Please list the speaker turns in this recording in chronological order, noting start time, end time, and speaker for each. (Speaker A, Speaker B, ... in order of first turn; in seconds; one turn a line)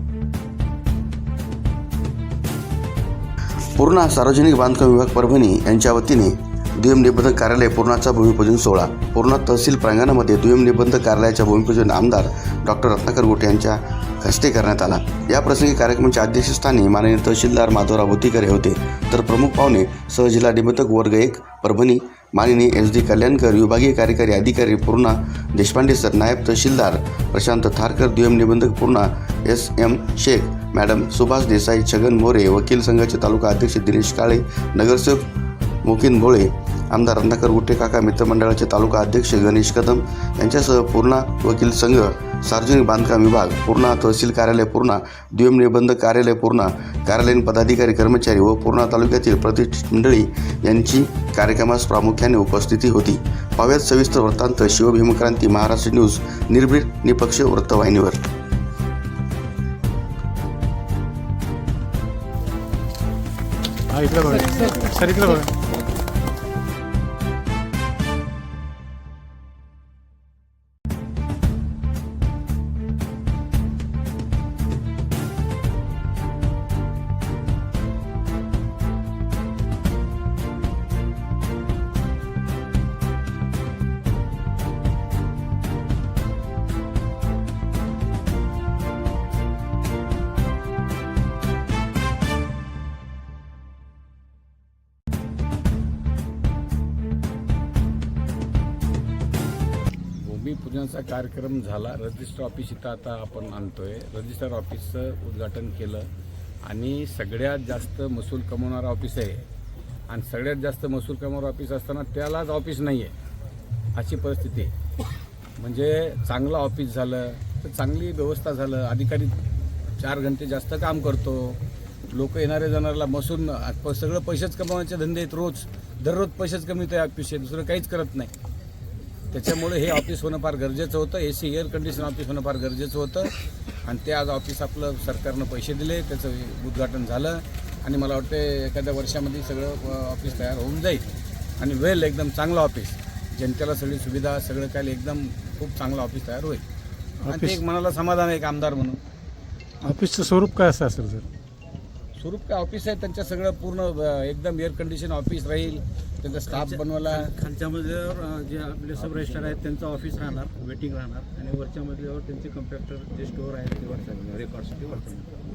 Speaker A: 3.8-35.3
Speaker A: 35.8-58.2
Speaker B: 63.9-65.5
Speaker C: 100.2-106.1
Speaker C: 106.6-109.4
Speaker C: 110.1-113.1
Speaker C: 113.9-114.7
Speaker C: 115.6-119.4
Speaker C: 120.0-128.3
Speaker C: 129.3-133.3
Speaker C: 133.8-141.0
Speaker C: 141.6-146.6
Speaker B: 147.2-147.6
Speaker C: 147.3-149.0
Speaker B: 149.8-151.2
Speaker C: 152.2-157.3
Speaker D: 156.5-165.3
Speaker C: 159.1-159.6